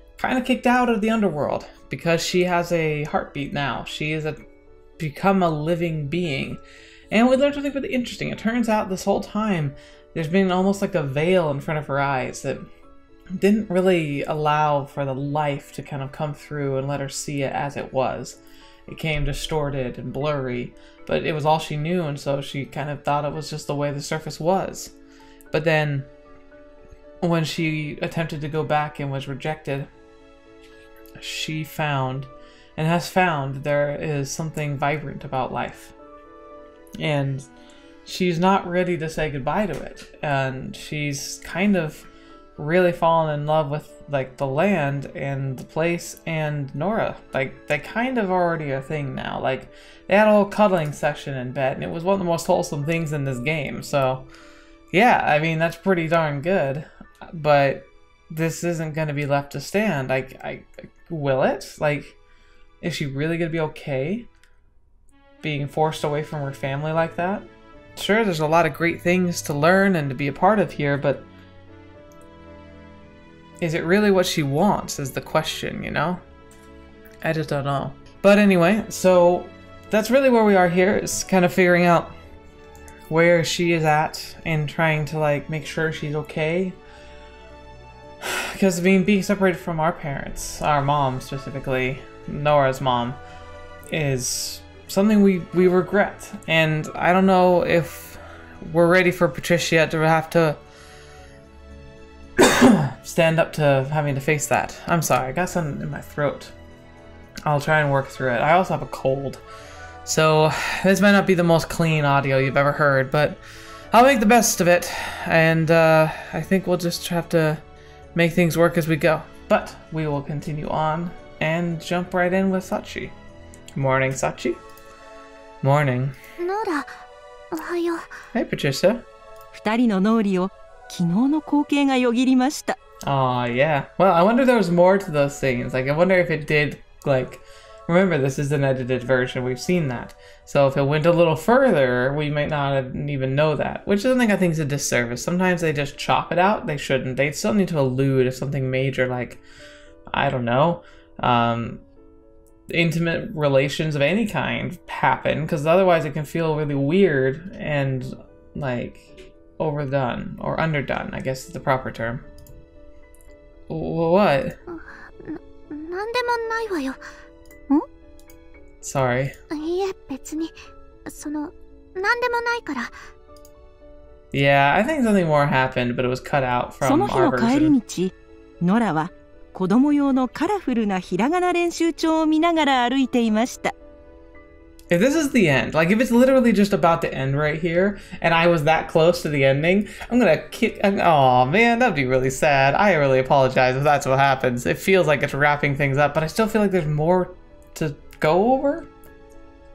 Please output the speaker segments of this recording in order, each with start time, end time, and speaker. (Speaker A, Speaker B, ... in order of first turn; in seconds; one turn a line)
Speaker A: 0.2-4.4
Speaker A: 5.0-6.6
Speaker A: 7.1-12.7
Speaker A: 13.3-24.9
Speaker A: 25.5-26.1
Speaker A: 27.2-29.9
Speaker A: 31.2-35.9
Speaker A: 37.0-37.5
Speaker A: 38.0-42.0
Speaker A: 42.6-54.3
Speaker A: 54.9-62.2
Speaker A: 62.8-64.3
Speaker A: 65.4-71.3
Speaker A: 73.6-76.2
Speaker A: 77.2-82.1
Speaker A: 83.1-86.8
Speaker A: 88.2-93.2
Speaker A: 93.9-100.6
Speaker A: 102.4-106.5
Speaker A: 107.5-109.4
Speaker A: 110.1-113.4
Speaker A: 113.9-117.6
Speaker A: 118.2-123.1
Speaker A: 123.8-124.6
Speaker A: 125.6-126.2
Speaker B: 126.4-126.9
Speaker B: 127.5-128.1
Speaker A: 128.3-129.1
Speaker C: 129.5-132.8
Speaker A: 133.0-149.4
Speaker A: 150.1-151.8
Speaker A: 152.7-162.3
Speaker A: 163.7-164.6
Speaker B: 164.7-167.0
Speaker A: 168.8-169.3
Speaker B: 169.5-170.6
Speaker B: 171.1-172.9
Speaker A: 174.3-177.8
Speaker C: 176.8-183.7
Speaker A: 184.9-198.9